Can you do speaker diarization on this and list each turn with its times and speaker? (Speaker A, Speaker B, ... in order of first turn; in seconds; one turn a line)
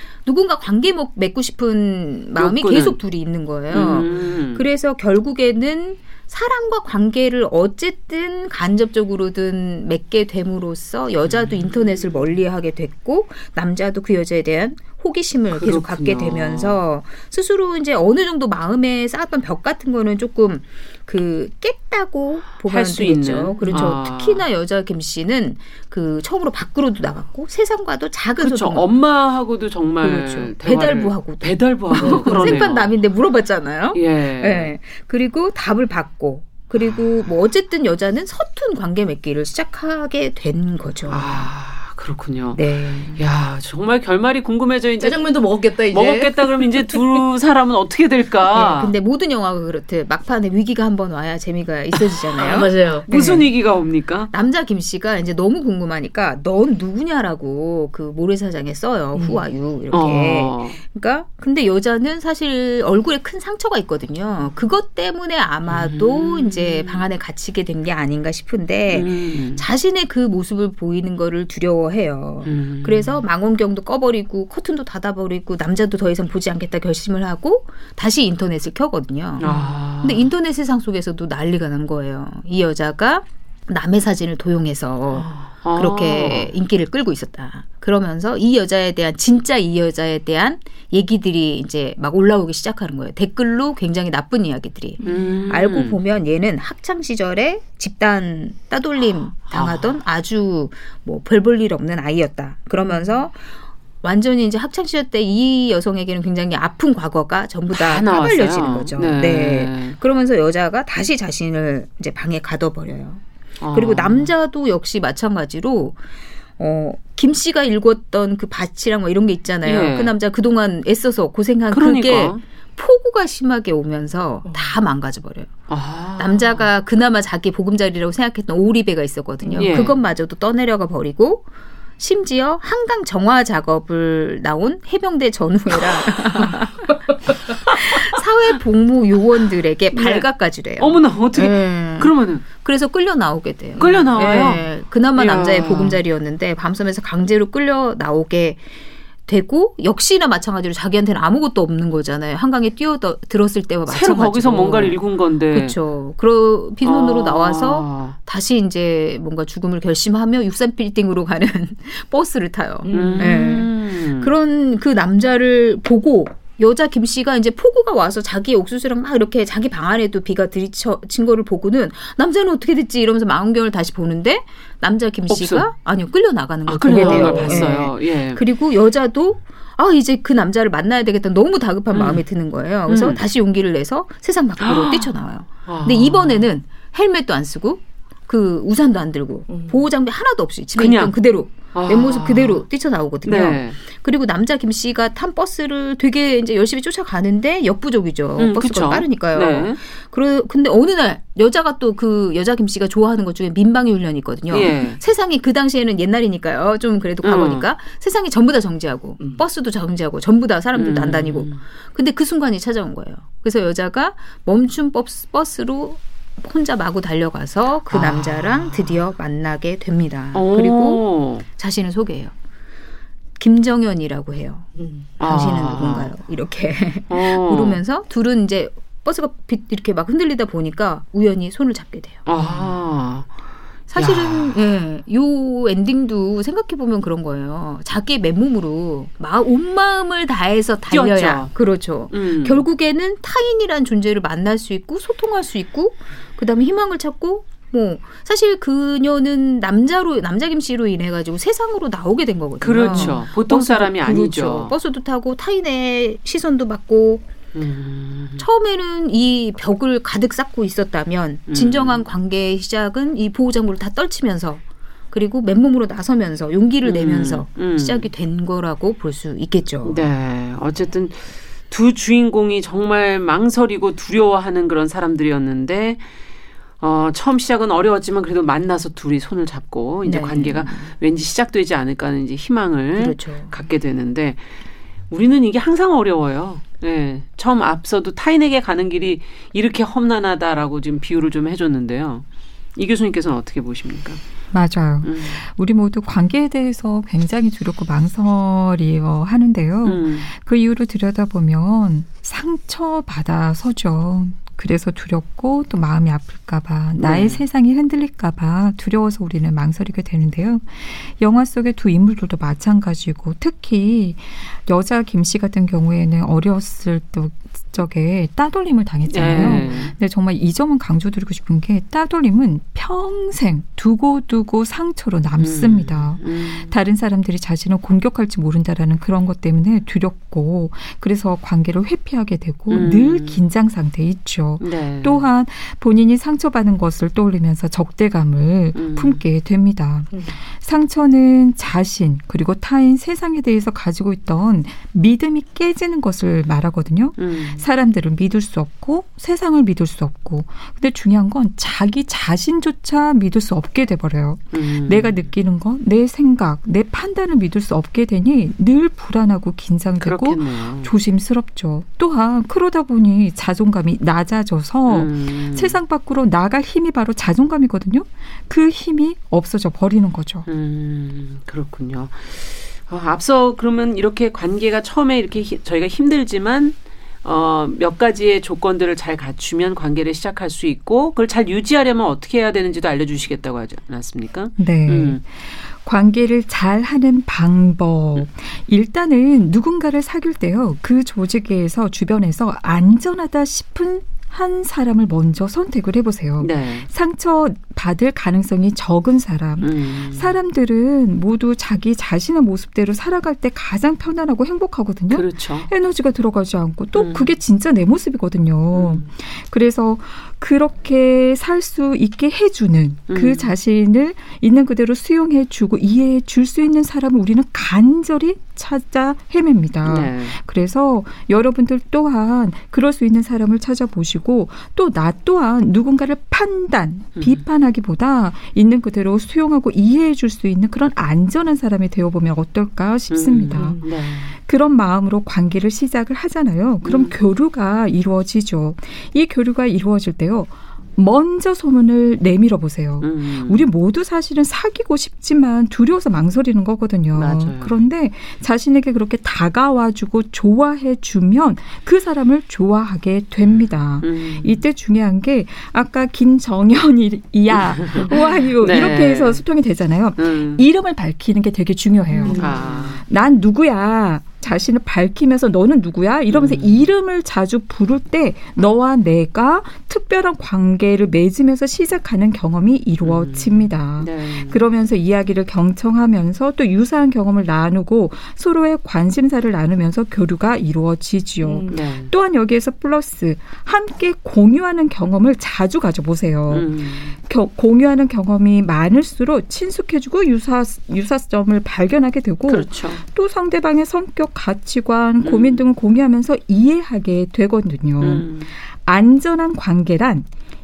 Speaker A: 0.2-28.9
Speaker B: 2.4-3.0
Speaker B: 3.7-4.7
Speaker B: 11.3-12.1
Speaker B: 15.5-16.8
Speaker B: 22.7-24.4
Speaker C: 23.6-23.9
Speaker B: 28.4-32.9
Speaker A: 30.0-41.5
Speaker C: 32.0-32.7
Speaker B: 33.9-34.7
Speaker B: 36.8-37.2
Speaker B: 41.1-45.2
Speaker A: 42.5-43.2
Speaker C: 45.0-47.0
Speaker B: 45.9-48.9
Speaker A: 48.5-53.5
Speaker C: 52.4-53.1
Speaker B: 53.1-54.3
Speaker A: 54.3-103.4
Speaker B: 59.9-60.8
Speaker B: 65.7-67.0
Speaker B: 68.9-69.6
Speaker B: 72.4-73.2
Speaker C: 79.4-79.7
Speaker B: 79.4-80.3
Speaker B: 85.2-86.5
Speaker C: 95.0-95.3
Speaker B: 95.0-96.0
Speaker B: 99.5-100.0
Speaker A: 104.0-116.0
Speaker B: 107.7-110.0
Speaker B: 113.6-114.3
Speaker A: 116.6-125.5
Speaker B: 119.6-120.1
Speaker B: 121.7-122.4
Speaker C: 124.4-124.7
Speaker B: 125.7-126.7
Speaker A: 126.2-131.4
Speaker C: 129.4-129.8
Speaker B: 129.6-130.0
Speaker A: 132.0-148.6
Speaker B: 139.9-140.2
Speaker B: 140.8-142.4
Speaker C: 143.8-144.6
Speaker B: 143.8-146.0
Speaker A: 149.3-155.0
Speaker B: 153.9-155.7
Speaker A: 155.5-222.3
Speaker B: 156.8-158.2
Speaker C: 162.8-163.4
Speaker B: 162.9-164.3
Speaker B: 175.3-175.7
Speaker B: 176.7-178.4
Speaker C: 176.9-177.7
Speaker B: 181.9-182.2
Speaker B: 182.9-183.2
Speaker B: 184.6-185.1
Speaker B: 185.7-186.4
Speaker C: 189.5-189.8
Speaker B: 190.8-191.2
Speaker B: 191.7-192.6
Speaker B: 193.2-193.8
Speaker B: 198.4-199.8
Speaker B: 204.5-205.0
Speaker B: 207.2-207.6
Speaker B: 210.7-211.6
Speaker B: 217.9-219.0
Speaker B: 220.3-221.4
Speaker A: 223.4-232.6
Speaker C: 224.8-225.1
Speaker B: 225.2-226.1
Speaker B: 227.1-227.8
Speaker B: 232.2-233.3
Speaker A: 233.9-257.2
Speaker B: 233.9-234.6
Speaker B: 240.9-241.5
Speaker B: 242.1-242.6
Speaker B: 252.6-254.7
Speaker C: 252.8-253.1
Speaker B: 257.5-258.4
Speaker A: 258.4-270.0
Speaker B: 261.5-262.0
Speaker B: 266.8-268.1
Speaker B: 269.8-276.0
Speaker B: 276.8-284.4
Speaker A: 280.0-280.9
Speaker A: 282.9-283.5
Speaker B: 285.1-292.2
Speaker B: 292.8-294.2
Speaker D: 294.5-370.4
Speaker B: 295.0-295.4
Speaker B: 299.8-300.3
Speaker B: 307.0-307.4
Speaker B: 319.1-319.9
Speaker B: 325.4-326.7
Speaker B: 332.7-333.4
Speaker B: 334.6-335.3
Speaker B: 338.7-339.2
Speaker B: 347.2-347.6
Speaker B: 354.5-355.3
Speaker B: 360.0-360.9
Speaker B: 364.9-365.8
Speaker B: 370.5-385.2
Speaker D: 384.6-500.3
Speaker B: 396.4-396.9
Speaker B: 399.6-400.4
Speaker B: 405.1-405.7
Speaker B: 406.9-407.3
Speaker B: 408.7-409.0
Speaker B: 413.1-413.5
Speaker B: 419.8-420.4
Speaker B: 427.2-427.4
Speaker B: 433.1-434.3
Speaker B: 436.8-437.1
Speaker B: 443.0-443.7
Speaker B: 447.1-447.8
Speaker B: 454.0-454.6
Speaker B: 457.5-459.4
Speaker B: 460.2-460.6
Speaker C: 462.1-462.7
Speaker B: 462.2-463.0
Speaker B: 466.3-466.9
Speaker B: 473.0-474.6
Speaker C: 481.4-481.8
Speaker B: 481.7-482.1
Speaker B: 486.5-487.1
Speaker B: 492.5-493.0
Speaker B: 495.2-495.6
Speaker B: 498.0-498.5